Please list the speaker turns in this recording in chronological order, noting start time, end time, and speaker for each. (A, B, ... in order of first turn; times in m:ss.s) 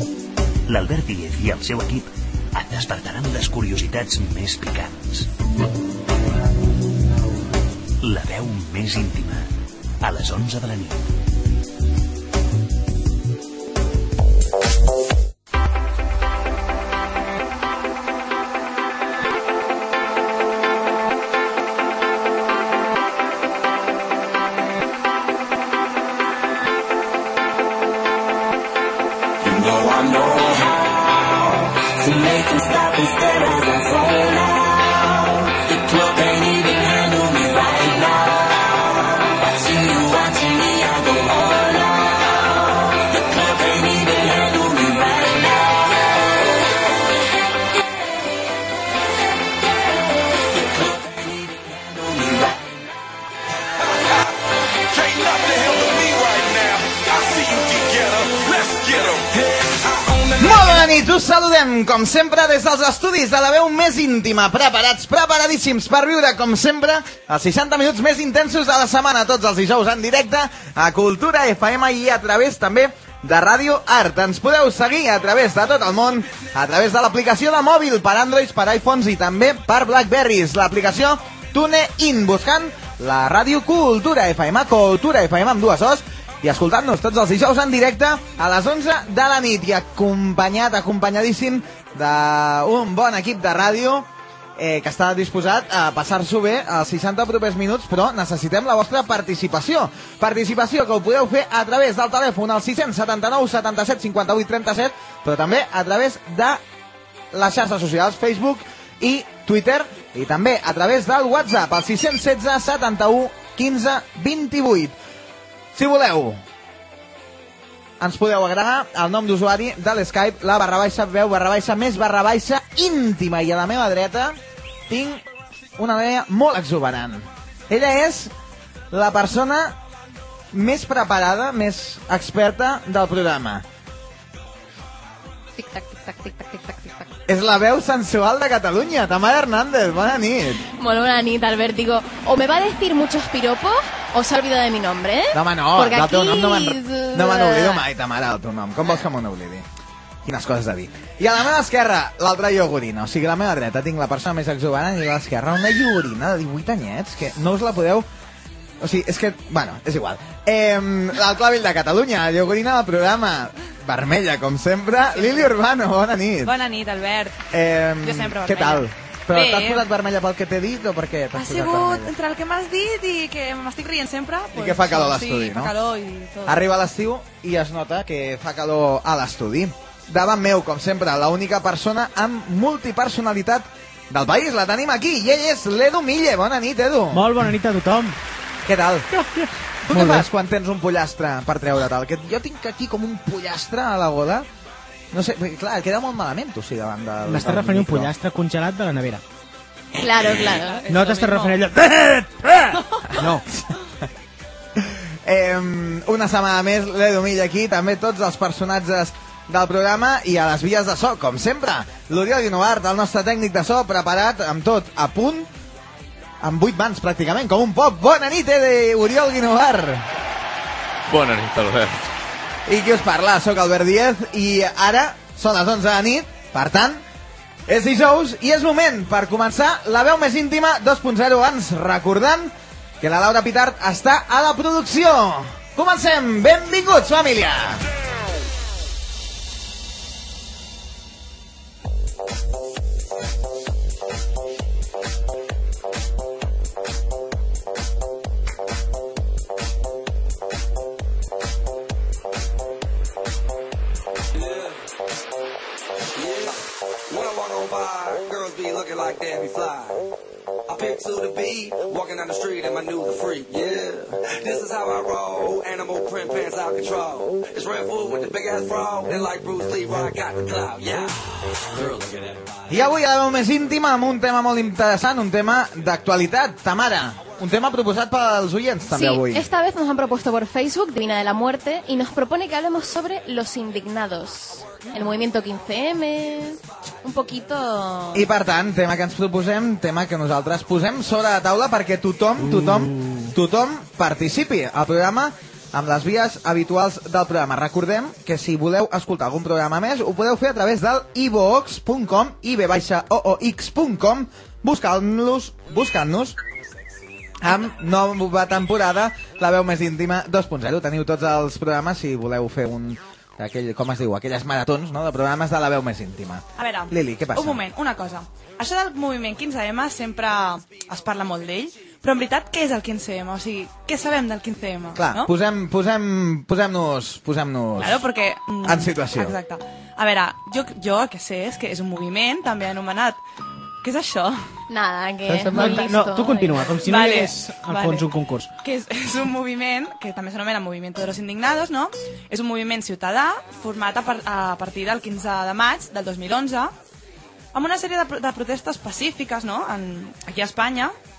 0:00.7-0:05.3 A
0:08.0-0:09.5 A
0:10.0-0:11.1 A
0:29.5-0:46.2 B
0:50.5-0:52.7 B
0:53.8-1:00.9 C
1:00.4-1:46.6 D
1:47.3-1:55.0 D
1:55.8-1:56.4 D
1:58.0-2:05.2 D
2:05.8-2:08.3 D
2:08.9-2:09.8 D
2:10.5-2:13.7 D
2:15.6-2:17.1 E
2:17.3-2:20.6 D
2:20.7-2:27.9 E
2:25.3-2:29.7 D
2:30.2-2:38.1 D
2:38.8-2:46.5 D
2:46.4-2:47.4 F
2:47.5-2:52.1 D
2:48.0-2:49.8 F
2:51.3-2:56.7 F
2:54.5-2:55.7 D
2:56.5-3:07.3 D
3:07.1-3:08.2 G
3:08.7-3:09.1 D
3:09.2-3:10.3 G
3:09.9-3:14.5 D
3:15.1-3:18.1 D
3:17.2-3:19.2 G
3:20.0-3:20.9 E
3:20.5-3:21.6 F
3:20.9-3:23.4 G
3:24.8-3:35.5 D
3:36.4-3:40.1 D
3:41.1-3:42.1 A
3:42.7-3:47.0 D
3:47.7-3:57.8 D
4:14.3-4:14.8 C
4:16.2-4:20.1 C
4:20.7-4:31.1 C
4:31.7-4:32.3 C
4:32.7-4:39.5 D
4:38.9-4:48.3 E
4:48.1-5:06.4 D
4:52.4-4:53.3 G
5:07.4-5:17.6 D
5:16.6-5:25.3 F
5:25.0-5:28.1 D
5:27.8-5:33.2 F
5:28.6-5:29.4 D
5:33.8-5:34.4 F
5:34.7-5:36.7 E
5:35.3-5:38.5 G
5:36.9-5:38.1 F
5:38.6-5:46.7 F
5:47.5-5:50.9 F